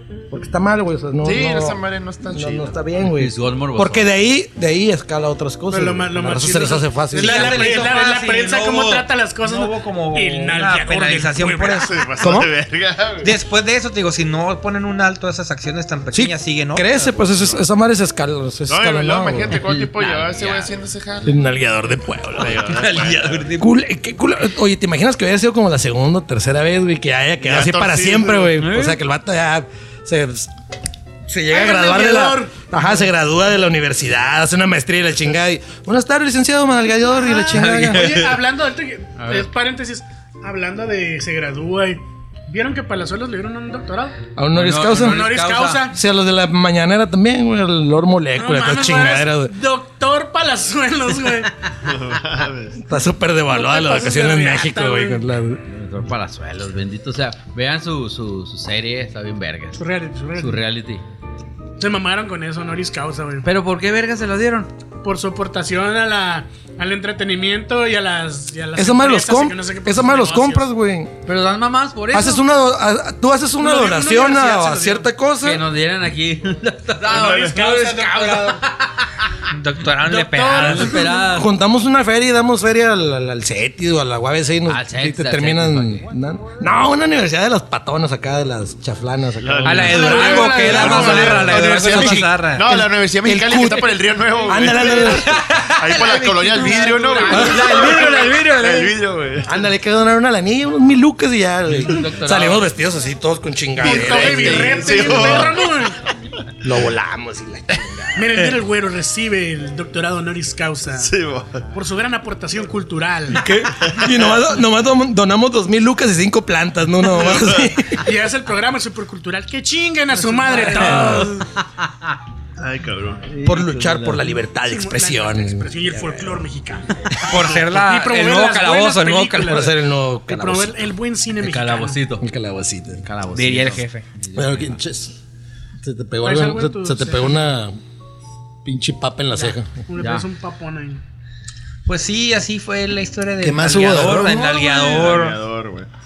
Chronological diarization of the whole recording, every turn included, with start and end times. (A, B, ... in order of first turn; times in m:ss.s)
0:00.3-0:07.8 A
0:01.2-0:02.7 B
0:03.1-0:04.1 C
0:05.7-0:12.0 D
0:07.1-0:12.5 E
0:11.8-0:13.3 B
0:13.2-0:17.2 E
0:16.1-0:19.6 A
0:17.2-0:17.6 B
0:18.7-0:21.4 B
0:19.5-0:20.7 C
0:21.2-0:22.8 A
0:22.4-0:23.5 B
0:22.6-0:23.7 E
0:23.6-0:30.5 A
0:27.4-0:28.6 B
0:28.6-0:29.0 C
0:31.3-0:38.2 A
0:31.5-0:33.0 D
0:37.2-0:44.2 D
0:37.6-0:38.2 E
0:39.2-0:39.5 C
0:44.4-0:45.3 A
0:44.5-0:45.9 C
0:45.0-0:46.0 D
0:45.9-0:49.5 A
0:48.3-0:51.5 D
0:51.8-0:52.8 B
0:52.8-0:55.6 A
0:53.5-0:55.2 D
0:55.7-0:59.8 C
0:59.8-1:00.6 D
1:00.4-1:01.0 C
1:01.8-1:03.4 D
1:03.4-1:04.7 C
1:05.0-1:10.7 D
1:08.8-1:11.1 A
1:11.2-1:12.4 C
1:12.1-1:15.7 A
1:13.6-1:15.1 D
1:15.4-1:19.3 C
1:17.1-1:18.6 D
1:17.1-1:17.6 B
1:19.5-1:21.1 E
1:20.0-1:21.2 D
1:20.1-1:21.5 C
1:21.3-1:35.4 A
1:24.7-1:26.1 C
1:29.4-1:39.5 B
1:29.6-1:32.8 E
1:29.9-1:31.8 D
1:35.3-1:39.0 E
1:36.2-1:37.0 C
1:36.5-1:38.2 D
1:37.3-1:37.8 A
1:39.4-1:45.6 A
1:41.7-1:42.7 C
1:43.8-1:45.7 B
1:43.8-1:46.0 D
1:46.6-1:48.6 A
1:48.1-1:51.1 D
1:50.9-1:51.6 B
1:51.7-1:53.4 D
1:53.3-1:58.0 A
1:53.8-1:54.3 B
1:57.2-1:57.7 B
1:58.0-2:01.5 D
2:00.3-2:01.3 C
2:00.6-2:01.4 A
2:02.6-2:03.3 B
2:03.3-2:04.4 C
2:03.4-2:06.4 A
2:04.6-2:12.0 D
2:07.0-2:07.5 A
2:07.3-2:09.7 E
2:09.4-2:10.8 A
2:11.4-2:12.2 C
2:12.2-2:13.0 A
2:13.0-2:14.8 C
2:13.3-2:14.0 E
2:14.3-2:15.2 A
2:15.8-2:17.7 A
2:16.2-2:17.4 D
2:18.6-2:19.7 A
2:19.4-2:21.0 D
2:19.9-2:20.2 C
2:21.8-2:25.4 E
2:23.4-2:24.7 A
2:24.2-2:25.9 B